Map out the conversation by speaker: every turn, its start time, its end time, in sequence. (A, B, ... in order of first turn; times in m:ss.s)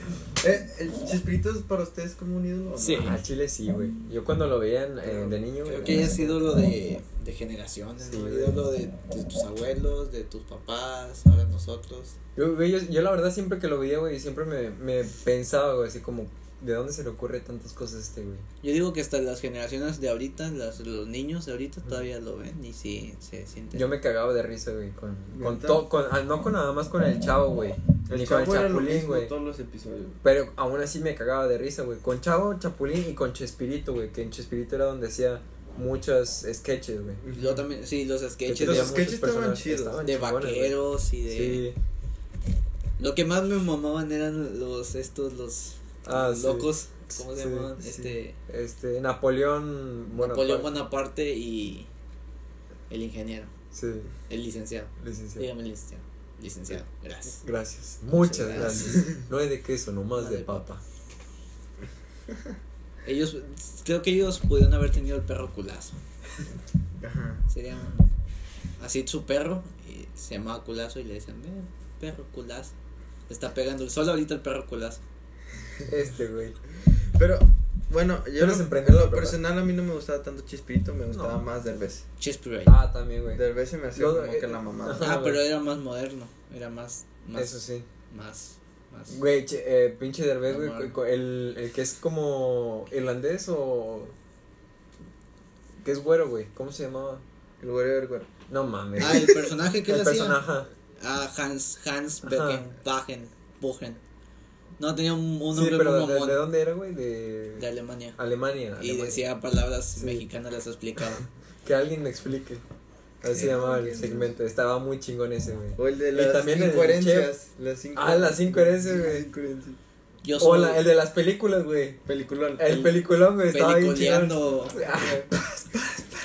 0:00.4-0:03.2 A
0:02.8-0:03.2 B
0:03.0-0:06.4 C
0:05.0-0:05.4 A
0:05.6-0:12.2 B
0:08.0-0:08.6 C
0:12.3-0:18.4 C
0:18.6-0:23.9 B
0:23.7-0:29.3 C
0:25.3-0:25.9 A
0:28.1-0:30.2 A
0:30.2-0:37.2 C
0:37.2-0:37.6 A
0:37.3-0:39.0 B
0:38.4-0:41.8 C
0:38.6-0:40.0 A
0:40.0-0:41.7 B
0:43.0-0:48.4 B
0:46.0-0:50.7 C
0:50.1-0:51.9 B
0:52.9-0:53.5 B
0:53.7-0:54.1 C
0:54.3-0:57.4 B
0:55.0-0:55.5 C
0:57.4-1:00.8 C
0:58.1-0:59.1 B
0:58.5-0:59.2 A
1:00.1-1:00.6 B
1:03.0-1:06.0 B
1:07.0-1:07.4 A
1:07.5-1:08.1 B
1:08.8-1:12.7 B
1:13.3-1:15.0 B
1:15.9-1:16.6 C
1:17.1-1:22.0 A
1:18.4-1:19.4 C
1:21.1-1:21.4 C
1:22.2-1:22.8 B
1:22.6-1:23.4 C
1:23.3-1:25.2 A
1:23.9-1:25.4 C
1:25.0-1:27.6 B
1:27.3-1:27.9 C
1:28.1-1:29.2 B
1:29.1-1:34.1 C
1:30.4-1:31.0 B
1:35.8-1:37.2 C
1:37.6-1:38.3 A
1:38.5-1:40.7 C
1:39.0-1:40.4 B
1:39.0-1:39.3 A
1:41.0-1:44.0 B
1:42.2-1:42.7 C
1:44.8-1:46.4 B
1:45.5-1:49.3 C
1:47.6-1:48.2 B
1:48.8-1:51.2 B
1:50.0-1:50.2 C
1:51.6-1:52.6 C
1:53.2-1:57.3 C
1:53.2-1:54.3 A
1:55.8-1:59.8 A
1:57.9-1:59.3 C
2:00.2-2:00.8 B
2:00.4-2:02.0 C
2:02.0-2:03.0 A
2:02.6-2:06.0 C
2:03.5-2:04.8 B
2:04.8-2:05.3 A